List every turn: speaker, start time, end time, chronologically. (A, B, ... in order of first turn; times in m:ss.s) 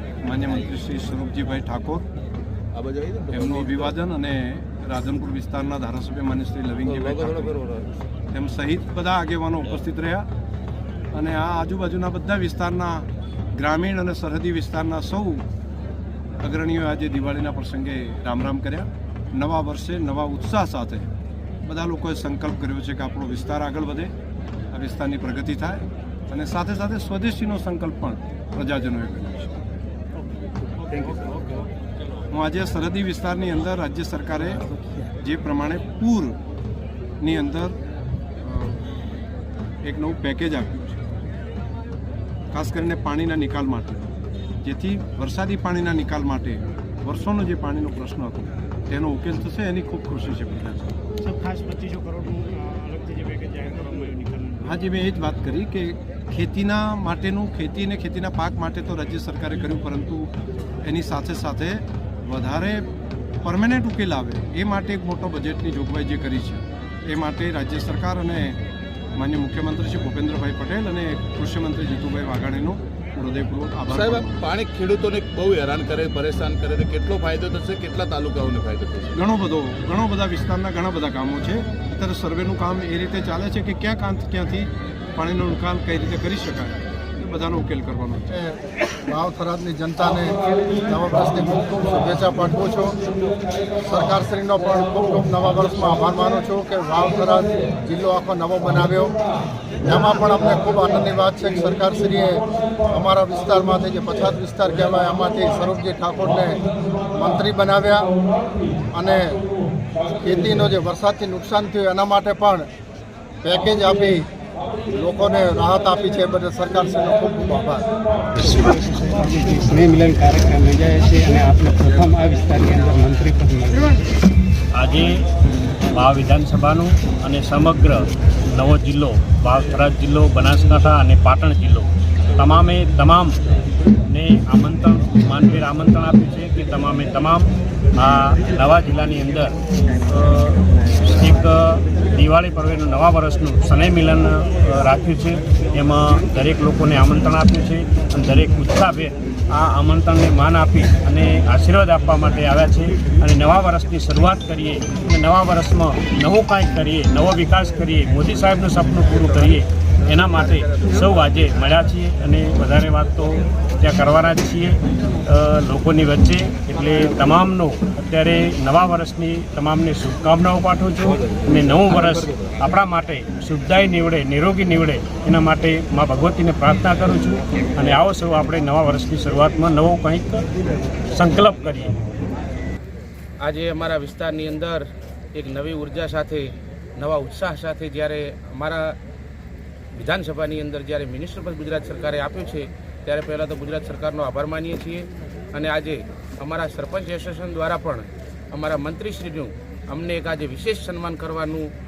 0:00.2-0:02.1 A
0:02.7-0:03.9 B
0:03.3-0:07.5 A
0:06.9-0:08.0 B
0:08.3-0:10.3 A
0:11.1-0:15.4 A
0:16.4-0:21.1 A
0:21.6-0:24.1 A
0:24.7-0:29.6 A
0:30.9-0:31.6 C
0:32.3-0:34.7 A
0:35.2-0:36.4 A
0:37.2-0:37.8 A
0:38.4-0:38.8 A
0:39.8-0:41.0 A
0:42.5-0:51.0 A
0:51.2-0:54.7 C
0:54.6-1:00.3 A
1:00.8-1:02.9 A
1:03.4-1:08.6 A
1:09.2-1:14.4 A
1:13.9-1:19.1 B
1:19.2-1:28.4 A
1:29.1-1:33.0 D
1:33.8-1:39.1 D
1:39.8-1:48.1 D
1:48.9-1:49.4 D
1:50.2-1:52.7 D
1:53.4-1:54.3 D
1:54.9-1:57.9 D
1:58.4-2:03.9 E
2:04.7-2:05.2 F
2:05.9-2:13.4 F
2:14.1-2:19.5 F
2:20.1-3:00.4 F
3:01.1-3:02.0 F
3:03.4-3:09.0 G
3:09.9-3:21.7 G